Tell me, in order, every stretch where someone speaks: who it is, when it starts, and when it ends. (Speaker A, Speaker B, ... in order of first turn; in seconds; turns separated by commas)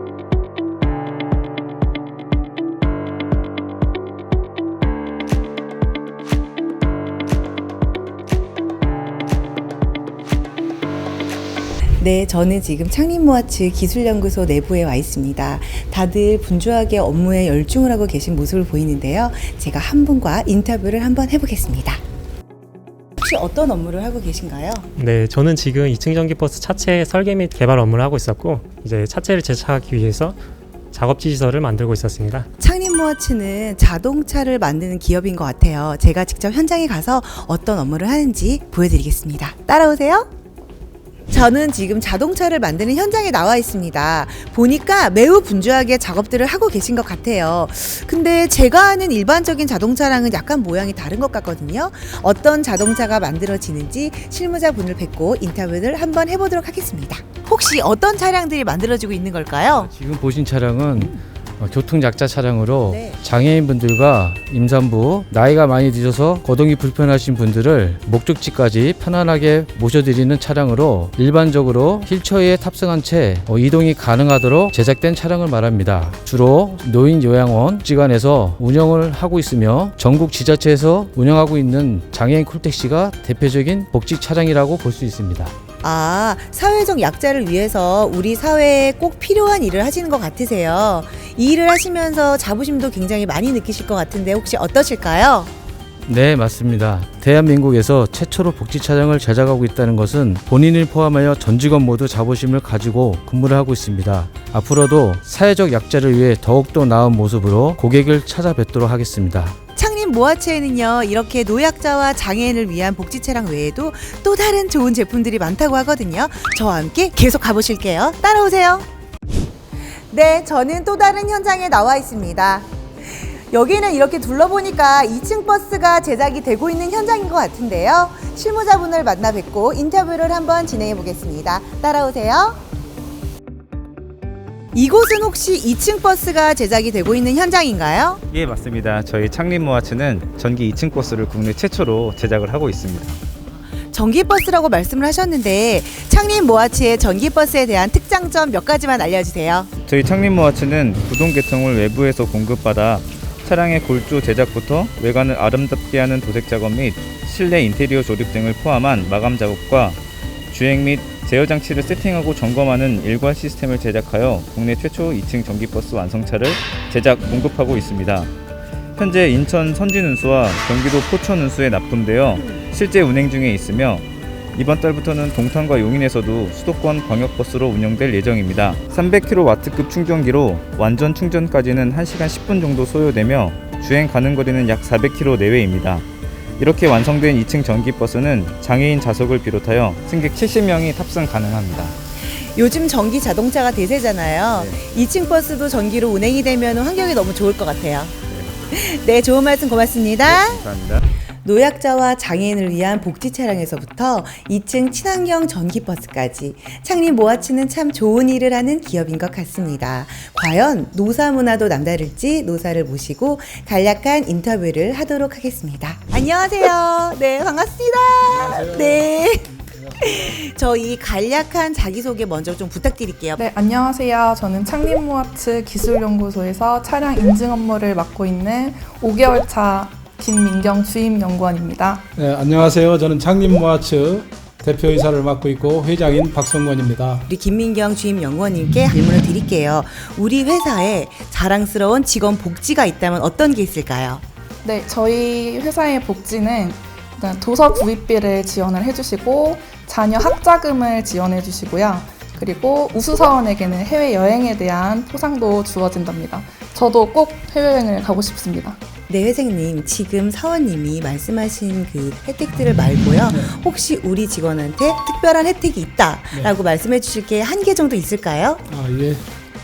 Speaker A: 12.0-22.0, Speaker A: 23.2-24.9, Speaker B: 25.0-30.4, Speaker B: 30.9-32.5, Speaker A: 32.6-40.3, Speaker A: 41.3-59.9, Speaker C: 59.7-85.5, Speaker A: 62.9-63.2, Speaker A: 85.8-95.5, Speaker C: 96.1-109.6, Speaker A: 109.8-118.9, Speaker A: 120.1-122.7, Speaker A: 123.5-132.6, Speaker A: 134.7-138.2, Speaker D: 138.3-143.2, Speaker A: 143.7-149.7, Speaker D: 149.9-160.0, Speaker D: 160.5-168.3, Speaker D: 169.0-186.1, Speaker D: 186.6-191.9, Speaker A: 192.2-198.2, Speaker D: 194.5-194.8, Speaker D: 198.3-198.6, Speaker A: 198.7-200.7, Speaker D: 200.2-201.1, Speaker A: 201.4-219.5, Speaker E: 218.3-220.4, Speaker A: 220.0-223.4, Speaker F: 223.4-232.1, Speaker E: 232.2-237.3, Speaker A: 237.3-244.2, Speaker F: 244.6-258.8, Speaker A: 259.1-268.6, Speaker E: 268.7-269.3